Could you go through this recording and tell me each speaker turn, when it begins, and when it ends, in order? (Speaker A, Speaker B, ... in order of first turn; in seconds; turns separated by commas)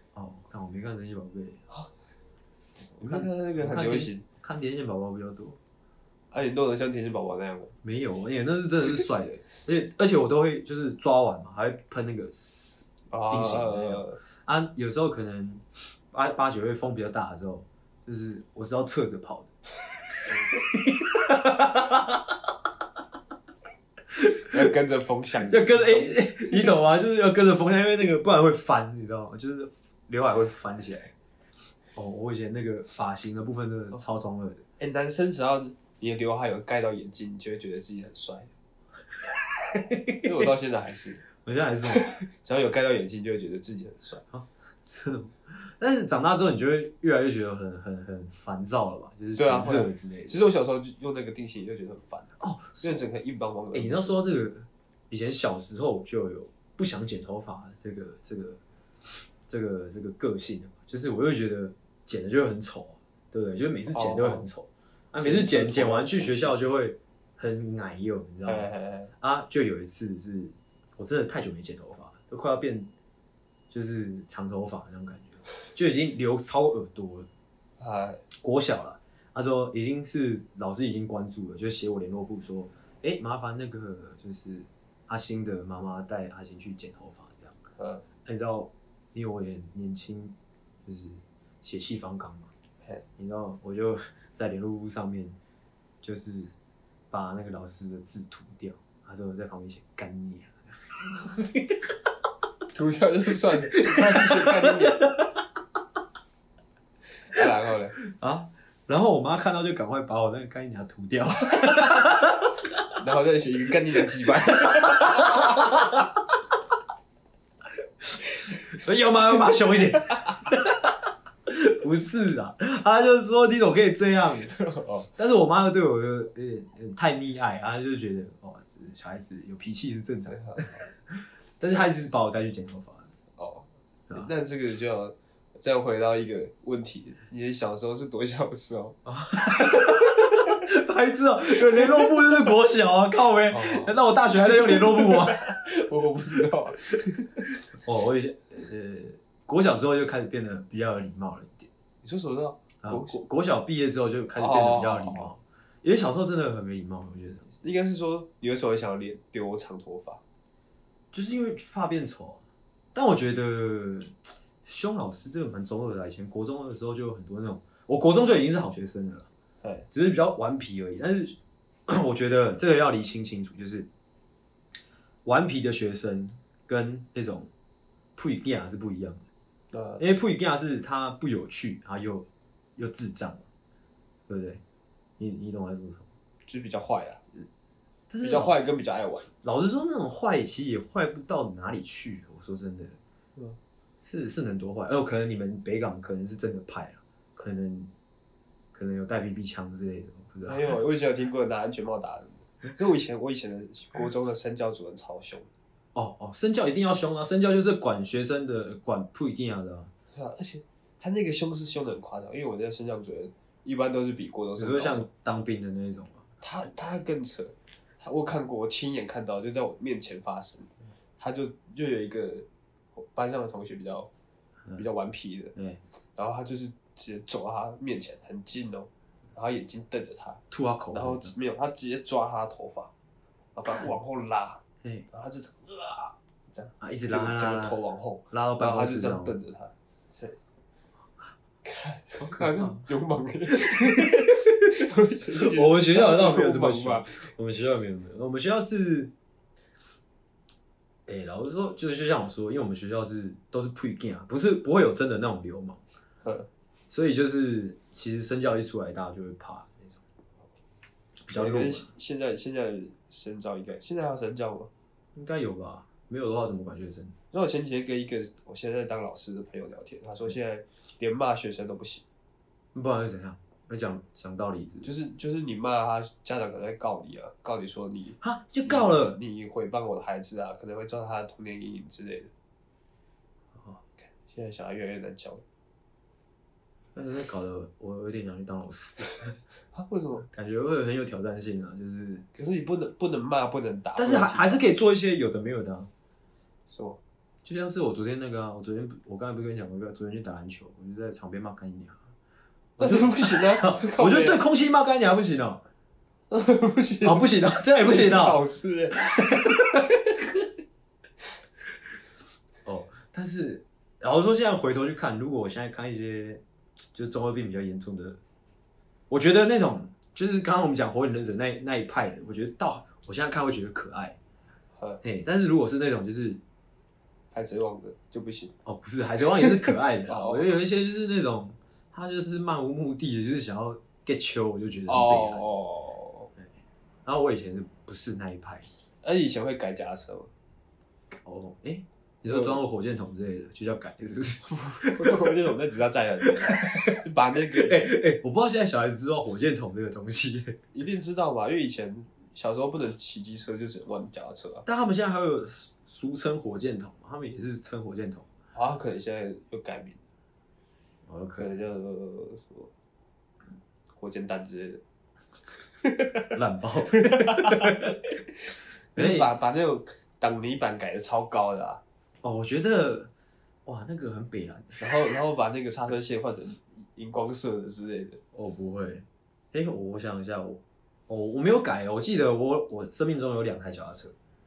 Speaker A: 0.1-1.6, Speaker B: 3.0-4.2, Speaker A: 3.0-5.6, Speaker B: 6.3-7.8, Speaker A: 7.8-19.5, Speaker B: 13.1-14.2, Speaker A: 20.1-22.4, Speaker A: 24.1-24.5, Speaker B: 24.5-26.2, Speaker A: 25.5-31.1, Speaker A: 31.9-34.7, Speaker B: 34.8-38.5, Speaker A: 39.6-40.3, Speaker B: 40.2-41.2, Speaker A: 41.4-42.2, Speaker B: 42.0-44.2, Speaker A: 44.3-50.4, Speaker B: 49.4-54.2, Speaker A: 52.4-53.1, Speaker A: 53.7-58.6, Speaker A: 59.5-68.7, Speaker B: 63.9-64.5, Speaker B: 65.2-66.6, Speaker B: 68.5-69.1, Speaker A: 69.2-72.9, Speaker A: 73.7-77.3, Speaker B: 77.8-78.2, Speaker A: 78.3-87.7, Speaker B: 87.8-88.0, Speaker A: 88.2-92.5, Speaker A: 93.2-95.4, Speaker A: 96.0-96.5, Speaker A: 97.1-101.8, Speaker B: 102.7-105.1, Speaker A: 103.9-105.3, Speaker B: 107.3-108.0, Speaker A: 108.0-112.8, Speaker B: 113.0-115.7, Speaker A: 114.7-115.9, Speaker A: 118.0-120.9, Speaker B: 120.1-120.3, Speaker A: 121.5-124.5, Speaker B: 124.5-125.1, Speaker A: 125.2-133.1, Speaker B: 130.3-130.9, Speaker B: 133.4-139.0, Speaker A: 139.1-145.6, Speaker B: 143.5-143.9, Speaker B: 144.4-147.5, Speaker A: 147.7-151.7, Speaker B: 152.0-153.2, Speaker A: 152.8-157.6, Speaker B: 154.3-155.3, Speaker B: 157.6-160.2, Speaker A: 161.1-162.4, Speaker A: 162.9-169.3, Speaker A: 169.9-173.9, Speaker A: 175.2-177.5, Speaker A: 178.2-179.2, Speaker B: 179.7-180.0, Speaker A: 180.0-183.4, Speaker A: 184.3-184.6, Speaker A: 185.2-186.1, Speaker B: 186.5-187.2, Speaker A: 188.1-188.6, Speaker B: 188.2-189.3, Speaker A: 189.4-193.0, Speaker A: 194.0-197.9, Speaker A: 198.7-200.7, Speaker B: 200.4-205.5, Speaker A: 205.9-209.9, Speaker B: 210.1-215.1, Speaker A: 214.6-216.2, Speaker B: 216.4-224.1, Speaker B: 224.8-225.6, Speaker A: 225.6-225.8, Speaker B: 226.2-232.9, Speaker A: 230.5-231.3, Speaker B: 233.6-240.4, Speaker A: 236.8-237.8, Speaker A: 238.3-239.3, Speaker B: 241.6-247.3, Speaker A: 242.2-242.9, Speaker A: 244.0-244.4, Speaker A: 245.3-249.1, Speaker A: 251.1-255.8, Speaker B: 256.2-256.5, Speaker A: 256.9-260.0, Speaker A: 261.2-261.9, Speaker B: 261.3-264.7, Speaker A: 265.1-267.2, Speaker B: 267.3-272.0, Speaker A: 272.7-274.9, Speaker B: 274.8-282.3, Speaker A: 278.2-279.2, Speaker B: 284.1-285.4, Speaker A: 286.9-289.4, Speaker B: 289.7-290.3, Speaker A: 290.3-292.3, Speaker B: 292.4-294.6, Speaker A: 294.0-295.9, Speaker B: 296.7-297.0, Speaker A: 297.4-302.0, Speaker A: 302.8-305.6, Speaker B: 302.8-304.4, Speaker B: 306.3-309.5, Speaker A: 307.0-308.4, Speaker A: 309.0-309.9, Speaker A: 312.6-316.4, Speaker A: 316.9-318.2, Speaker A: 319.1-324.2, Speaker A: 325.0-326.4, Speaker B: 327.3-328.5, Speaker A: 328.6-335.5, Speaker B: 330.1-330.6, Speaker B: 334.9-336.3, Speaker A: 337.1-338.7, Speaker B: 339.0-340.3, Speaker A: 341.1-345.3, Speaker B: 342.3-342.6, Speaker B: 344.5-347.8, Speaker A: 346.5-347.0, Speaker A: 347.5-350.6, Speaker B: 350.7-354.6, Speaker A: 354.6-358.3, Speaker B: 358.5-360.0, Speaker A: 361.1-361.5, Speaker B: 361.4-362.7, Speaker B: 364.0-364.8, Speaker B: 365.8-366.3, Speaker A: 366.3-368.0, Speaker B: 366.9-371.8, Speaker A: 368.9-369.3, Speaker A: 372.2-373.1, Speaker A: 373.7-374.9, Speaker B: 374.8-378.2, Speaker A: 378.3-384.1